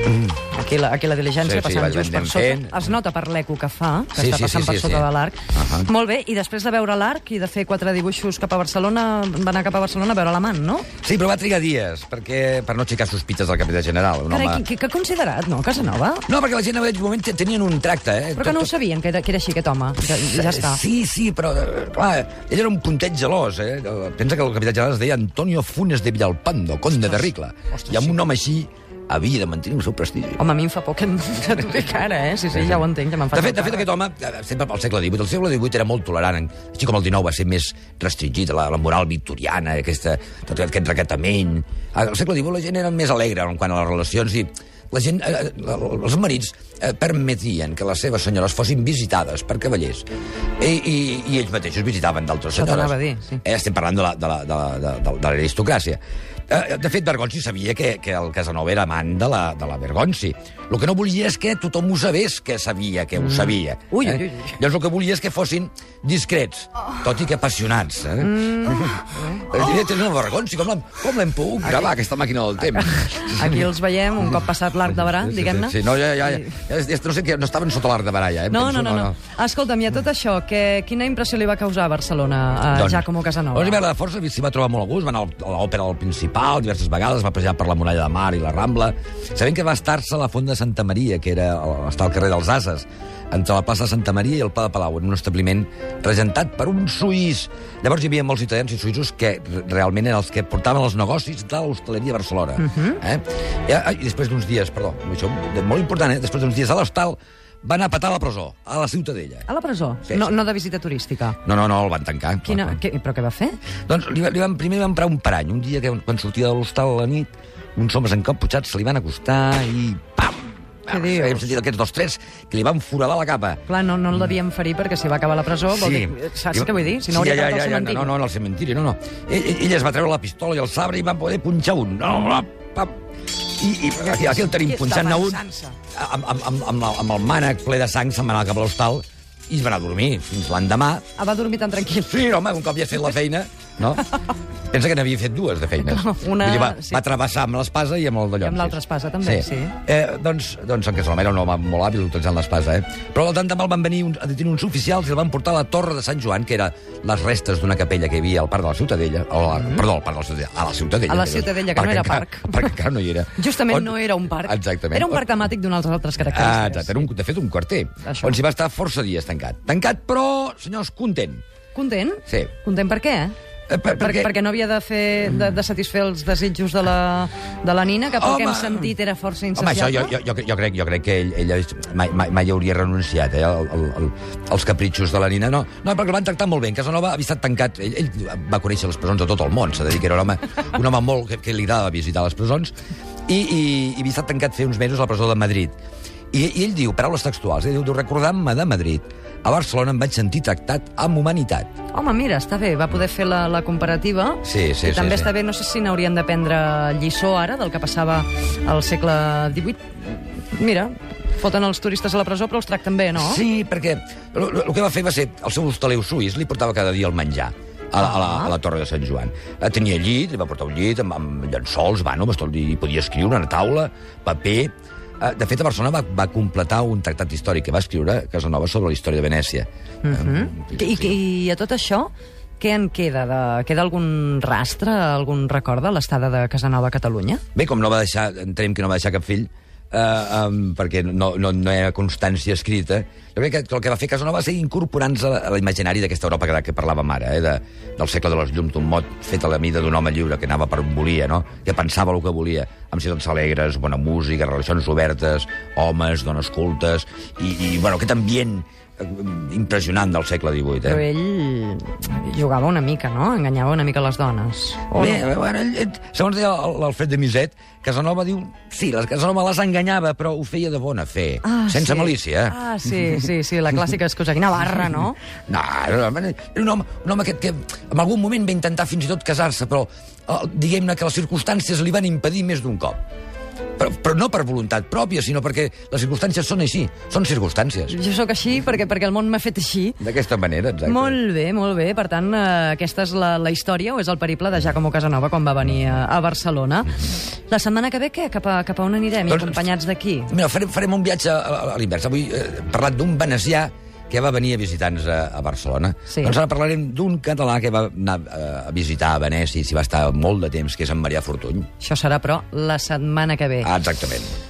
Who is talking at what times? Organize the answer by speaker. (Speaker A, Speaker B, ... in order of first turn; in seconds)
Speaker A: 0.5-10.9, 14.3-16.3, 18.4-20.8, 27.7-28.1, 30.4-33.9, 52.5-53.4, 63.2-64.6, 68.2-69.5, 71.7-71.9, 72.7-76.6, 78.5-83.8, 102.6-103.0, 109.5-111.4, 112.5-113.6, 120.9-121.5, 123.7-128.1, 134.1-135.8, 141.2-142.3, 145.8-147.0, 148.4-149.8, 161.1-162.8, 163.4-167.1, 168.0-168.4, 171.8-173.3, 173.9-180.1, 201.9-213.4, 218.0-218.5, 230.0-237.4, 260.8-265.2, 271.4-275.2, 287.9-290.0, 290.9-300.3, 306.1-306.4, 311.8-313.7
Speaker B: 1.4-2.8, 4.2-5.9, 11.0-14.6, 16.3-18.7, 20.1-30.4, 32.6-32.8, 33.3-50.1, 50.6-73.6, 75.2-79.2, 82.7-109.5, 110.1-110.3, 111.5-112.8, 113.9-123.6, 125.7-132.9, 133.6-135.4, 135.9-141.0, 142.1-144.1, 144.7-165.2, 166.2-171.4, 173.7-174.3, 178.1-178.9, 179.6-192.7, 193.3-195.8, 196.3-201.7, 204.4-205.3, 213.2-231.2, 237.6-261.0, 264.9-272.6, 275.5-283.0, 283.8-287.9, 290.0-291.2, 299.3-299.7, 300.3-311.7, 313.6-314.4